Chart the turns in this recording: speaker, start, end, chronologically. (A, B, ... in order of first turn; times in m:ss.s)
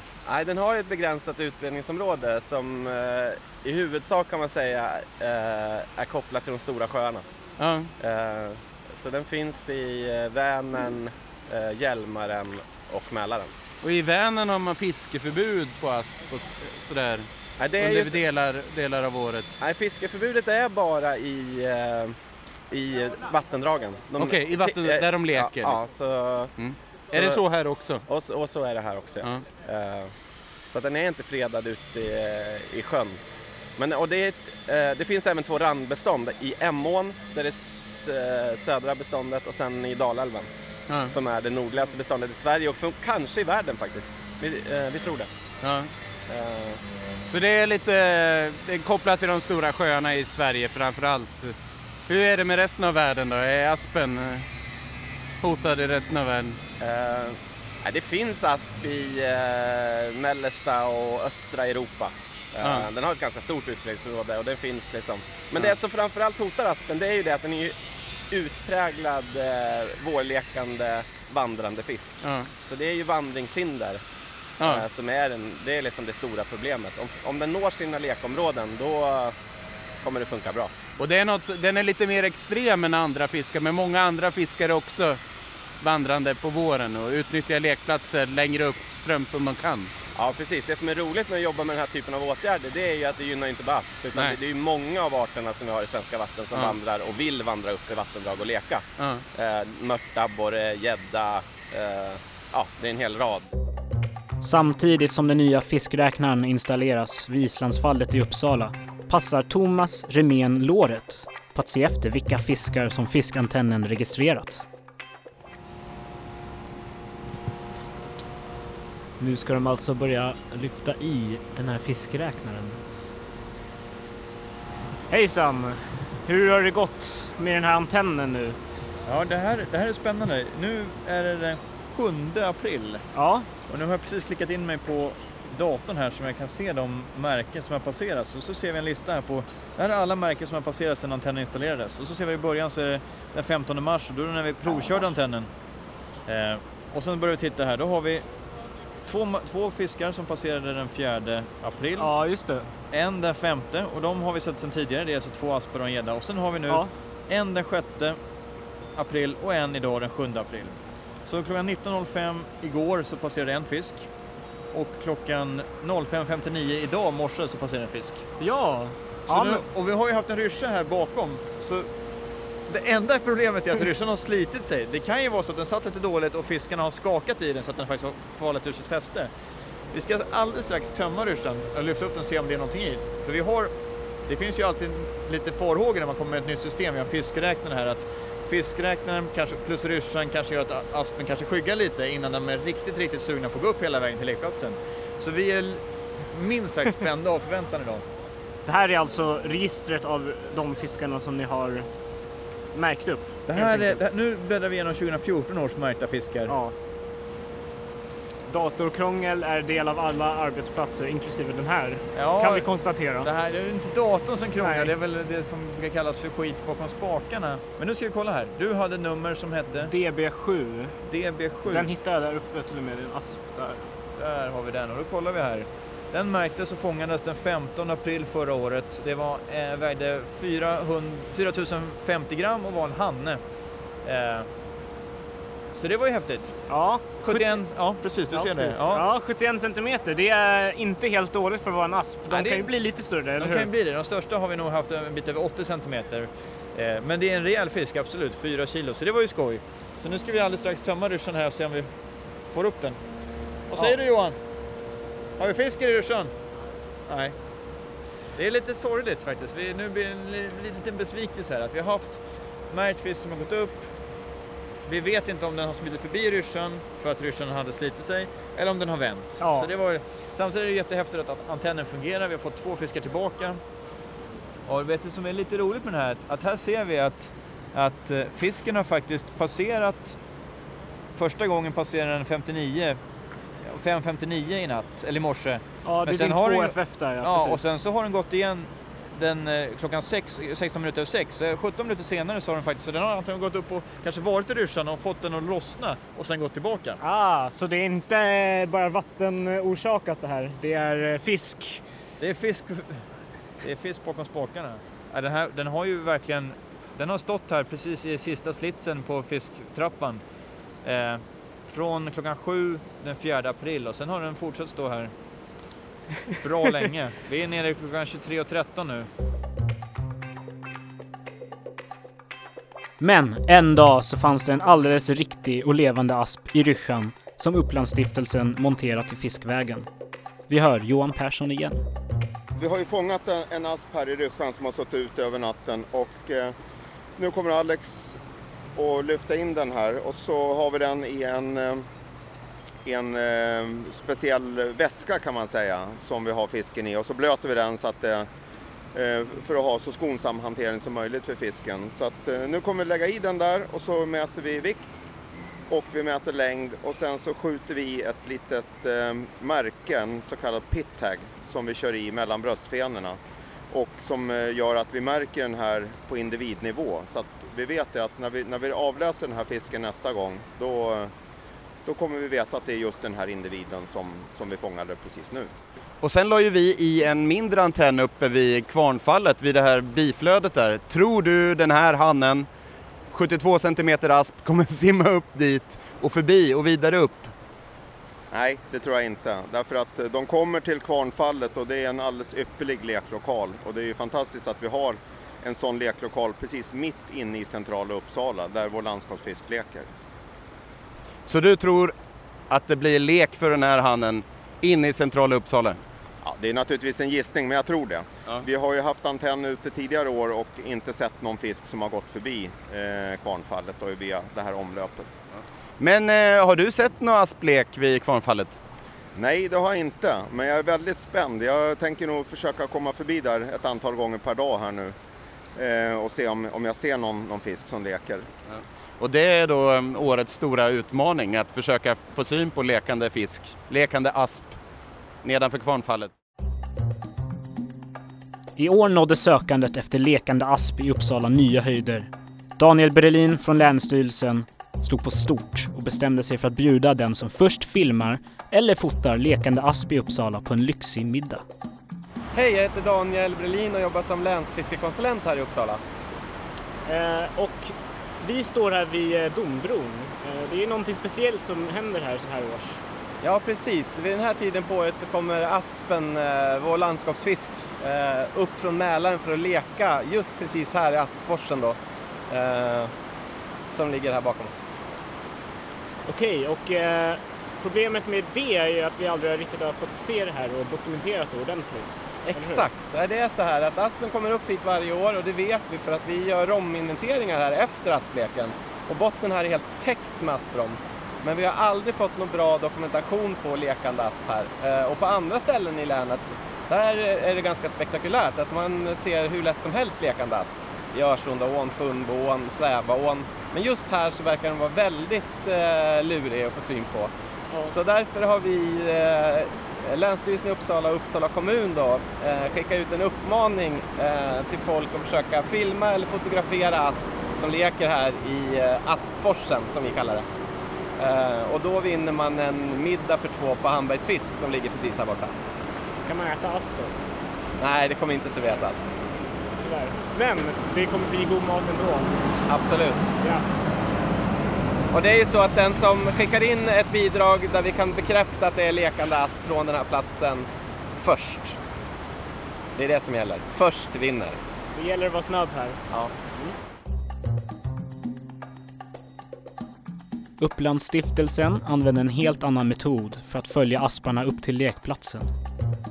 0:00.2-0:07.3 A
0:07.6-0:07.9 B
0:08.0-0:13.5 A
0:13.8-0:19.5 B
0:17.6-0:18.2 A
0:19.6-0:22.2 A
0:22.7-0:26.5 A
0:24.2-0:25.8 B
0:26.6-0:28.0 B
0:27.1-0:27.4 A
0:28.1-0:30.1 A
0:30.7-0:33.2 A
0:33.8-0:40.5 A
0:40.9-0:41.1 B
0:41.0-0:45.3 A
0:45.6-0:45.9 B
0:46.3-0:46.8 A
0:47.3-0:51.5 B
0:52.1-0:54.5 B
0:55.4-0:56.6 B
0:56.8-1:07.8 A
1:02.6-1:02.9 B
1:08.3-1:14.0 A
1:12.2-1:12.5 B
1:14.6-1:14.8 B
1:14.6-1:19.4 A
1:20.0-1:20.7 A
1:21.0-1:25.2 B
1:25.8-1:29.9 B
1:30.2-1:43.5 A
1:39.0-1:39.2 B
1:44.4-1:54.6 C
1:59.2-2:02.8 C
2:05.1-2:08.6 C
2:09.0-2:13.0 D
2:13.1-2:13.5 C
2:13.7-2:25.5 D
2:26.3-2:28.2 D
2:29.0-2:32.1 D
2:32.0-2:32.7 C
2:32.9-2:38.2 D
2:39.0-2:44.1 D
2:44.7-2:48.2 D
2:48.4-2:49.6 C
2:49.3-2:51.9 D
2:52.7-2:59.3 D
2:59.9-3:03.7 D
3:04.3-3:18.0 D
3:18.6-3:21.9 C
3:22.7-3:24.0 C
3:23.5-3:26.5 D
3:26.5-3:26.7 C
3:28.5-3:33.3 C
3:32.1-3:32.6 D
3:33.2-3:39.9 D
3:34.6-3:34.9 C
3:39.7-3:41.0 C
3:41.0-3:41.9 D
3:41.7-3:43.9 C
3:44.2-3:53.4 D
3:54.0-3:54.5 D
3:55.8-3:56.6 D
3:56.7-3:57.6 C
3:57.2-3:59.0 D
3:58.3-4:03.7 C
4:02.3-4:02.7 D
4:03.4-4:11.9 D
4:12.5-4:13.0 D
4:13.7-4:14.4 D
4:15.4-4:16.3 D
4:17.1-4:17.4 D
4:18.3-4:23.9 D
4:24.8-4:33.6 D
4:29.4-4:29.7 C
4:34.6-4:40.2 D
4:41.1-4:43.0 D
4:43.6-4:57.0 D
4:45.8-4:47.6 C
4:57.0-5:01.8 C
5:02.2-5:03.0 D
5:03.6-5:10.2 D
5:10.8-5:15.1 D
5:16.4-5:19.1 D
5:23.0-5:29.9 C
5:30.5-5:31.8 C
5:32.6-5:36.5 E
5:37.2-5:38.2 E
5:38.7-5:41.9 E
5:42.8-5:48.3 E
5:48.9-5:54.9 E
5:55.7-6:03.2 E
6:03.7-6:11.1 E
6:11.8-6:15.5 E
6:16.0-6:22.5 B
6:23.1-6:27.3 B
6:28.3-6:39.9 E
6:41.3-6:41.9 B
6:42.5-6:45.8 B
6:46.2-6:55.1 E
6:55.3-6:58.6 B
6:59.1-7:05.0 E
7:05.5-7:08.3 E
7:08.5-7:14.6 B
7:15.2-7:16.1 B
7:18.6-7:31.4 C
7:32.3-7:35.8 A
7:36.8-7:42.8 C
7:43.2-7:51.8 A
7:52.3-7:52.9 A
7:53.7-7:54.6 A
7:56.1-8:02.7 C
8:02.2-8:27.1 A
8:27.7-8:40.2 A
8:41.0-8:45.3 A
8:46.0-8:47.0 C
8:47.6-8:49.0 A
8:49.5-8:52.5 C
8:52.5-8:53.1 A
8:54.9-9:01.6 A
9:02.8-9:04.4 A
9:04.7-9:05.8 C
9:10.4-9:15.3 C